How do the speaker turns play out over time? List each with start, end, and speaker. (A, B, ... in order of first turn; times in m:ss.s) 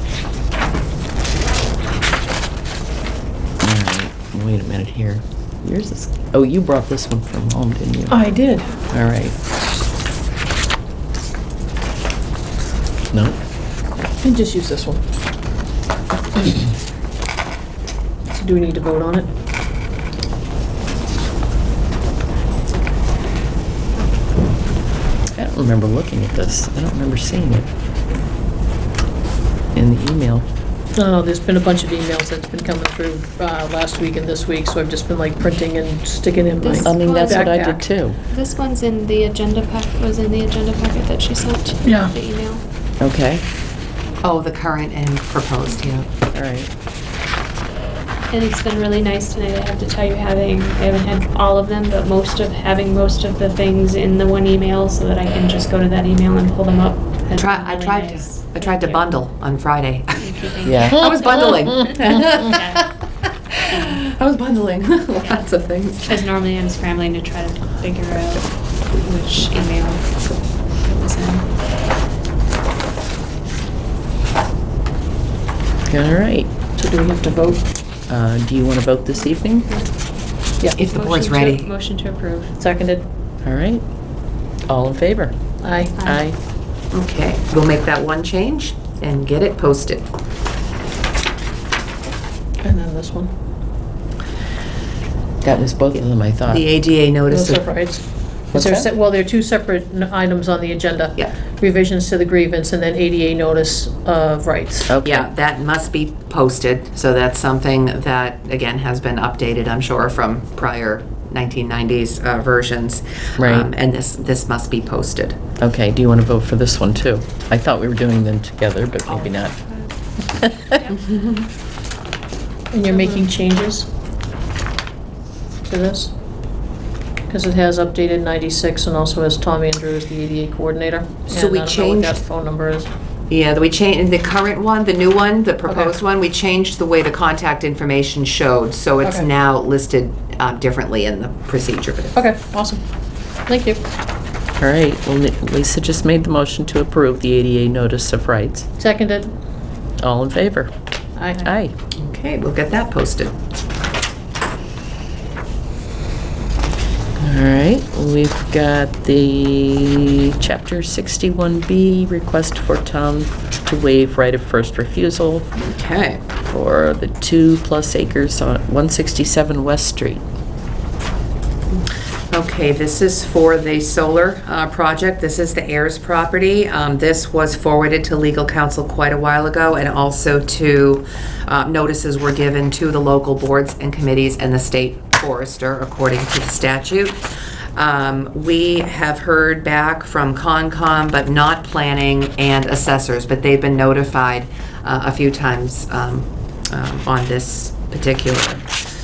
0:03.6-0:08.2 A
0:08.1-0:08.8 B
0:08.9-0:09.3 A
0:13.1-0:13.4 A
0:14.2-0:15.0 B
0:18.3-0:19.3 B
0:25.4-0:27.7 A
0:29.7-0:30.4 A
0:31.0-0:37.8 B
0:36.6-0:37.7 C
0:36.8-0:38.2 A
0:38.3-0:42.6 C
0:41.8-0:42.1 B
0:43.0-0:43.4 A
0:44.2-0:46.1 D
0:46.3-0:46.7 A
0:48.3-0:59.0 C
0:57.4-1:02.9 D
1:00.2-1:02.9 C
1:00.7-1:01.1 A
1:03.7-1:06.2 D
1:06.0-1:10.1 C
1:10.8-1:11.4 C
1:15.9-1:16.5 A
1:16.8-1:17.6 B
1:18.1-1:19.7 A
1:20.8-1:21.7 D
1:20.8-1:22.5 C
1:22.6-1:23.0 B
1:23.4-1:23.8 A
1:24.7-1:25.3 A
1:25.6-1:26.0 B
1:26.0-1:26.2 C
1:26.0-1:26.4 A
1:26.9-1:30.1 D
1:32.6-1:33.3 B
1:35.4-1:36.6 A
1:36.5-1:37.7 D
1:37.3-1:44.9 B
1:38.5-1:38.9 A
1:44.9-1:45.3 A
1:45.0-1:55.4 D
1:53.4-1:53.7 A
1:55.6-1:59.6 A
2:00.3-2:00.7 A
2:02.7-2:03.9 B
2:02.9-2:03.2 C
2:05.6-2:06.1 B
2:07.3-2:12.9 B
2:11.3-2:12.2 D
2:13.3-2:22.3 D
2:15.7-2:15.9 B
2:19.0-2:19.3 B
2:22.1-2:22.8 B
2:23.5-2:23.8 B
2:24.6-2:28.7 A
2:28.8-2:29.4 B
2:30.0-2:30.7 A
2:31.2-2:31.5 B
2:31.3-2:31.7 A
2:32.0-2:33.3 D
2:37.2-2:45.5 A
2:45.6-2:46.2 D
2:46.5-2:50.2 A
2:52.3-3:07.2 D
3:07.8-3:18.7 D